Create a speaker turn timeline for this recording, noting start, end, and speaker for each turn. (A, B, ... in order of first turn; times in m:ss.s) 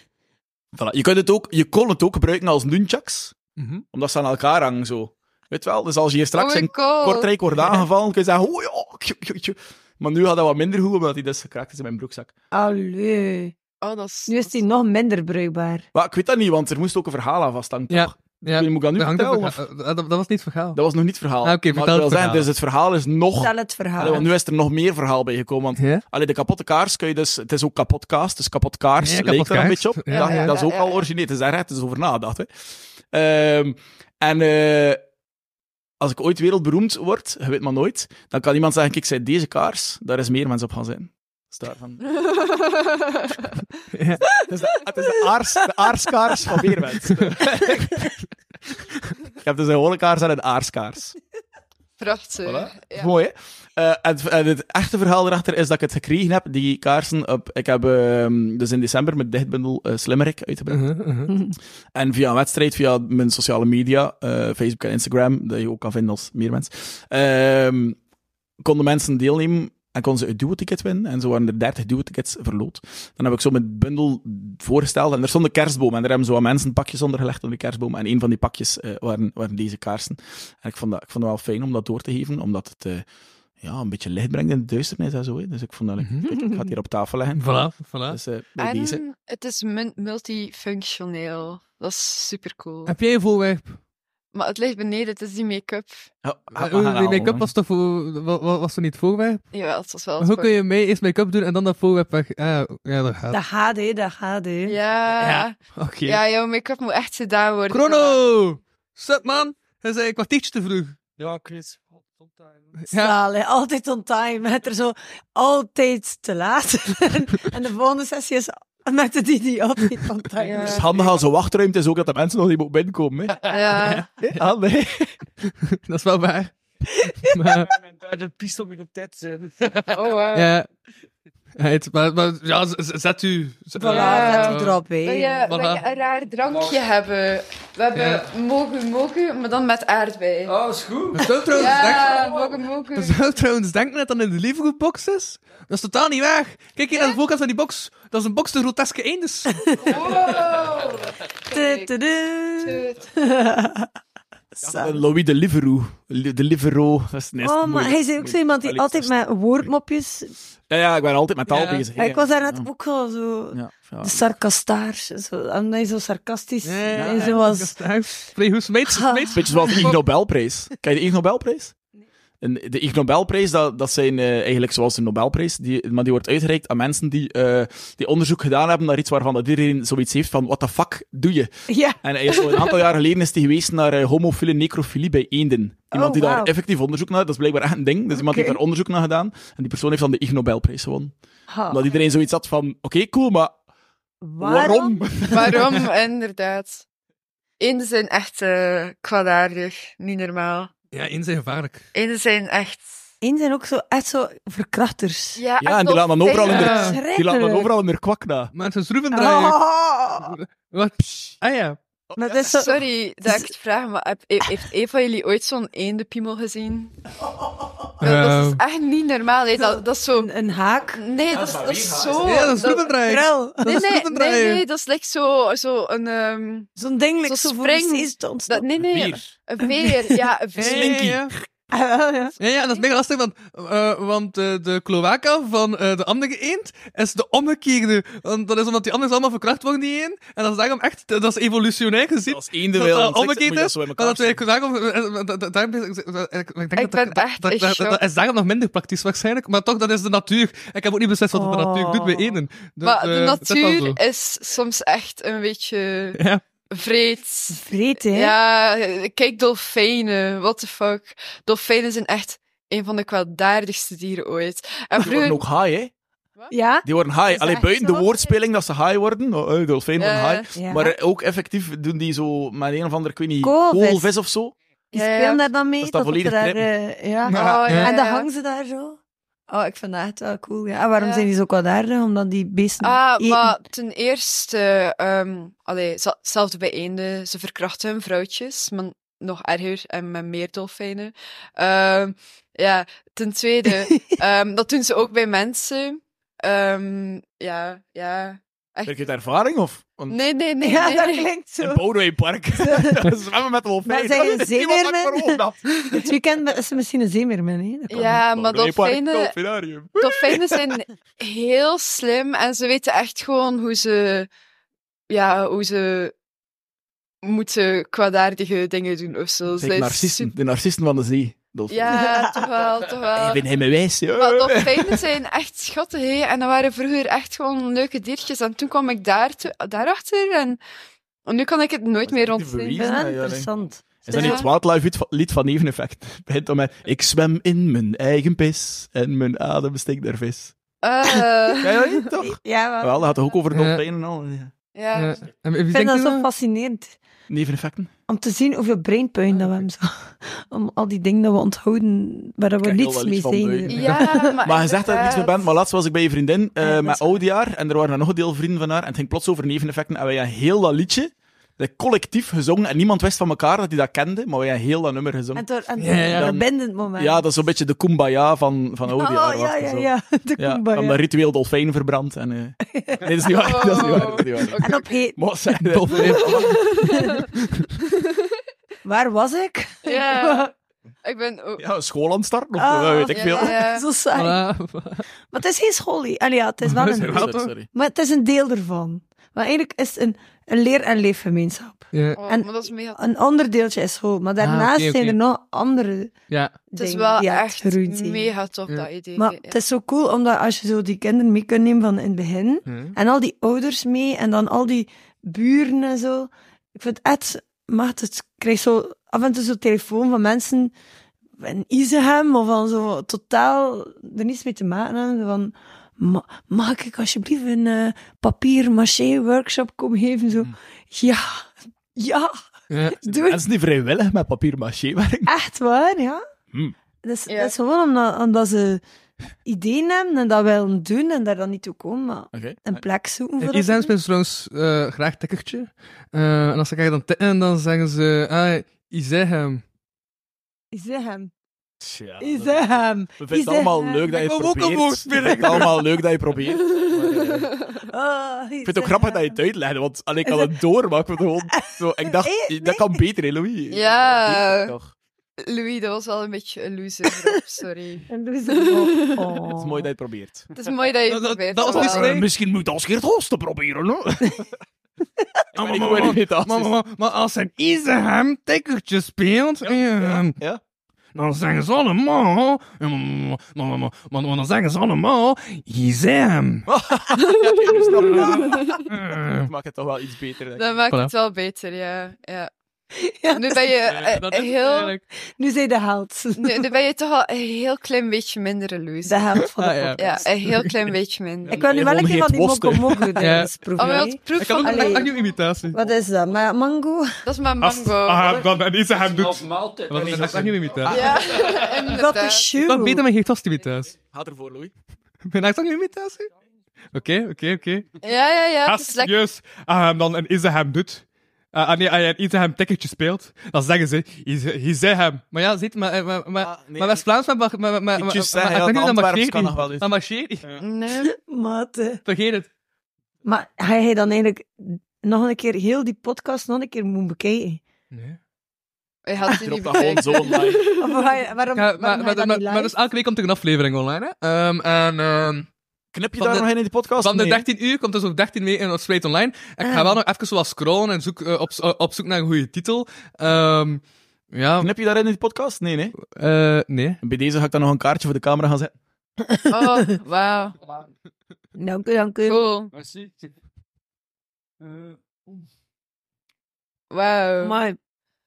0:00.7-0:03.4 A
0:03.6-0:03.8 B
0:03.9-0:12.3 A
0:06.4-0:07.3 C
0:12.5-0:13.6 D
0:13.8-0:14.6 C
0:14.3-0:15.8 D
0:15.9-0:19.6 A
0:17.9-0:20.8 B
0:20.7-0:32.5 A
0:21.4-0:22.5 B
0:23.4-0:24.3 D
0:25.8-0:26.0 B
0:29.0-0:30.6 B
0:30.1-0:31.0 C
0:33.1-0:35.0 A
0:36.0-0:42.0 A
0:42.1-0:43.6 C
0:43.9-0:44.2 B
0:44.2-0:48.1 A
0:49.4-0:51.2 A
0:52.0-0:53.1 C
0:52.4-1:00.9 A
1:00.7-1:01.3 B
1:01.3-1:01.6 D
1:01.9-1:08.0 A
1:08.6-1:23.1 A
1:23.6-1:29.0 A
1:26.0-1:26.4 B
1:27.4-1:28.2 B
1:28.6-1:32.9 C
1:32.9-1:33.8 B
1:34.3-1:36.1 C
1:36.2-1:37.5 A
1:36.6-1:39.5 B
1:39.5-1:40.5 C
1:40.2-1:43.4 B
1:43.3-1:44.8 D
1:44.6-1:48.2 C
1:45.1-1:46.2 B
1:47.7-1:51.0 B
1:51.2-1:52.8 E
1:52.9-1:53.2 B
1:52.9-2:00.8 D
2:00.4-2:00.9 C
2:00.4-2:01.1 E
2:00.6-2:03.4 A
2:03.5-2:04.0 C
2:03.8-2:04.4 B
2:04.2-2:05.2 A
2:05.4-2:06.6 B
2:06.8-2:07.4 D
2:07.2-2:07.7 B
2:07.6-2:10.2 E
2:09.9-2:10.5 C
2:10.3-2:10.7 B
2:11.6-2:14.8 B
2:13.8-2:15.4 D
2:13.9-2:20.5 C
2:15.5-2:15.8 B
2:16.5-2:16.8 E
2:17.9-2:18.3 B
2:20.5-2:22.6 E
2:21.1-2:22.3 B
2:21.5-2:23.2 C
2:23.0-2:29.7 B
2:26.9-2:27.2 C
2:29.8-2:31.0 E
2:29.9-2:31.9 C
2:31.5-2:33.9 D
2:32.6-2:33.0 C
2:34.6-2:35.0 D
2:34.6-2:39.1 A
2:37.4-2:40.3 D
2:40.7-2:42.7 A
2:41.5-2:41.9 B
2:42.0-2:47.7 D
2:43.5-2:44.3 A
2:46.6-2:50.0 B
2:47.0-2:47.4 A
2:48.9-2:49.9 D
2:49.4-2:51.7 A
2:52.4-3:11.1 A
3:01.7-3:02.0 D
3:02.3-3:02.8 C
3:05.9-3:06.5 D
3:08.1-3:08.6 D
3:11.5-3:11.8 D
3:11.7-3:13.6 A
3:14.2-3:15.0 D
3:14.4-3:15.6 A
3:15.3-3:16.8 C
3:17.6-3:20.7 C
3:20.9-3:21.9 B
3:21.9-3:23.0 C
3:23.2-3:25.4 D
3:25.4-3:27.0 C
3:25.6-3:28.5 A
3:26.5-3:27.0 B
3:26.5-3:27.7 D
3:28.6-3:31.8 B
3:29.1-3:30.4 D
3:32.1-3:32.6 A
3:32.2-3:33.5 D
3:32.6-3:36.9 C
3:38.0-3:40.3 C
3:38.0-3:38.6 B
3:39.6-3:41.0 D
3:40.9-3:42.9 C
3:41.3-3:42.5 A
3:42.2-3:44.6 B
3:43.0-3:43.7 D
3:43.7-3:46.7 C
3:46.8-3:48.7 D
3:47.3-3:51.0 C
3:48.8-3:49.3 A
3:49.6-3:50.2 D
3:50.6-3:51.3 B
3:50.6-3:51.2 A
3:51.7-3:52.4 D
3:52.4-4:14.0 B
4:02.3-4:04.4 A
4:06.8-4:08.0 C
4:11.3-4:12.4 D
4:12.8-4:25.4 C
4:16.2-4:16.4 B
4:17.5-4:18.4 D
4:25.0-4:25.9 A
4:26.5-4:28.1 D
4:26.8-4:34.6 A
4:30.0-4:30.5 C
4:30.6-4:30.9 D
4:33.4-4:34.1 D
4:34.9-4:43.6 D
4:34.9-4:35.5 C
4:35.8-4:36.7 A
4:37.3-4:37.8 A
4:37.3-4:38.3 C
4:41.0-4:41.3 C
4:42.8-4:59.1 C
4:58.9-5:00.2 A
5:00.1-5:01.3 C
5:00.6-5:01.8 D
5:01.6-5:06.1 A
5:02.6-5:03.0 D
5:03.9-5:08.2 D
5:07.9-5:09.4 C
5:07.9-5:10.7 A
5:10.0-5:14.3 C
5:15.1-5:16.1 C
5:17.2-5:20.3 C
5:19.6-5:22.2 A
5:21.7-5:23.4 C
5:21.9-5:22.4 D
5:23.1-5:25.0 A
5:24.1-5:30.6 C
5:31.3-5:32.9 C
5:32.0-5:33.5 A
5:32.8-5:34.4 D
5:34.0-5:40.5 A
5:34.1-5:34.5 C
5:40.8-5:42.0 C
5:41.6-5:44.5 A
5:42.2-5:43.2 D
5:43.5-5:43.8 B
5:44.8-5:45.2 C
5:44.9-5:46.3 B
5:45.7-5:47.0 D
5:47.3-5:47.9 A
5:48.1-5:54.4 D
5:52.6-6:05.4 A
5:53.7-5:55.6 C
5:56.6-5:57.2 D
6:05.4-6:07.2 D
6:05.8-6:06.3 B
6:06.1-6:16.7 A
6:08.9-6:11.0 D
6:12.7-6:13.0 D
6:13.3-6:15.0 C
6:14.6-6:15.2 D
6:15.6-6:16.6 B
6:16.2-6:17.3 C
6:16.9-6:17.2 D
6:18.8-6:20.5 D
6:19.8-6:20.5 C
6:21.0-6:21.7 C
6:21.6-6:23.6 A
6:22.6-6:24.4 D
6:23.1-6:23.9 C
6:24.2-6:25.0 B
6:25.3-6:36.1 D
6:26.6-6:27.5 B
6:27.1-6:27.7 A
6:31.9-6:32.2 B
6:32.2-6:33.0 C
6:34.4-6:35.2 B
6:36.3-6:36.6 B
6:36.7-6:38.3 D
6:36.8-6:39.6 C
6:39.2-6:50.7 D
6:42.7-6:43.0 B
6:51.4-7:02.3 D
7:02.7-7:03.0 B
7:02.9-7:03.4 D
7:03.1-7:05.3 A
7:05.3-7:06.2 D
7:07.0-7:08.8 D
7:07.3-7:07.5 C
7:09.4-7:13.9 D
7:12.3-7:12.8 A
7:13.4-7:19.6 B
7:20.7-7:21.3 D
7:21.8-7:22.6 A
7:22.2-7:24.0 D
7:23.2-7:27.5 A
7:24.1-7:25.8 B
7:26.7-7:27.8 C
7:27.9-7:29.4 D
7:28.6-7:34.9 A
7:30.3-7:30.5 D
7:31.6-7:33.0 D
7:33.7-7:34.7 C
7:35.4-7:39.4 C
7:38.1-7:39.9 D
7:39.5-7:40.5 A
7:40.5-7:42.2 C
7:41.1-7:42.3 B
7:41.7-7:44.5 A
7:45.6-7:46.7 A
7:45.6-7:50.4 B
7:49.6-7:50.6 A
7:51.2-7:56.7 B
7:56.7-8:00.7 A
7:57.2-7:58.8 C
7:58.9-7:59.5 B
8:00.6-8:02.5 C
8:03.0-8:03.6 D
8:03.3-8:04.9 C
8:03.9-8:05.0 B
8:05.4-8:06.6 D
8:06.4-8:09.2 C
8:09.1-8:10.2 D
8:09.6-8:10.7 B
8:10.0-8:11.6 C
8:11.5-8:13.2 A
8:11.5-8:15.1 D
8:13.2-8:15.8 B
8:13.8-8:15.2 C
8:15.7-8:17.1 D
8:17.2-8:18.4 C
8:17.6-8:21.2 B
8:18.9-8:21.9 E
8:19.9-8:21.2 A
8:20.9-8:22.5 C
8:21.9-8:23.0 D
8:22.6-8:24.0 B
8:24.1-8:24.7 A
8:25.3-8:26.3 B
8:26.9-8:27.9 B
8:28.0-8:29.1 C
8:28.6-8:40.5 B
8:36.4-8:37.1 A
8:37.9-8:39.9 A
8:40.6-8:41.1 C
8:41.0-8:42.0 D
8:42.1-8:42.5 B
8:43.2-8:47.6 D
8:47.9-8:48.2 B
8:49.0-8:51.1 C
8:49.2-8:50.7 A
8:50.8-8:52.7 D
8:51.6-8:55.5 B
8:55.9-8:57.5 A
8:56.2-9:04.7 B
8:59.6-9:00.0 D
9:04.6-9:06.0 A
9:06.0-9:07.0 B
9:07.0-9:08.7 A
9:09.5-9:10.6 C
9:11.6-9:12.4 D
9:12.2-9:12.7 C
9:12.7-9:13.3 E
9:14.6-9:15.4 E
9:16.9-9:17.6 C
9:17.4-9:17.8 D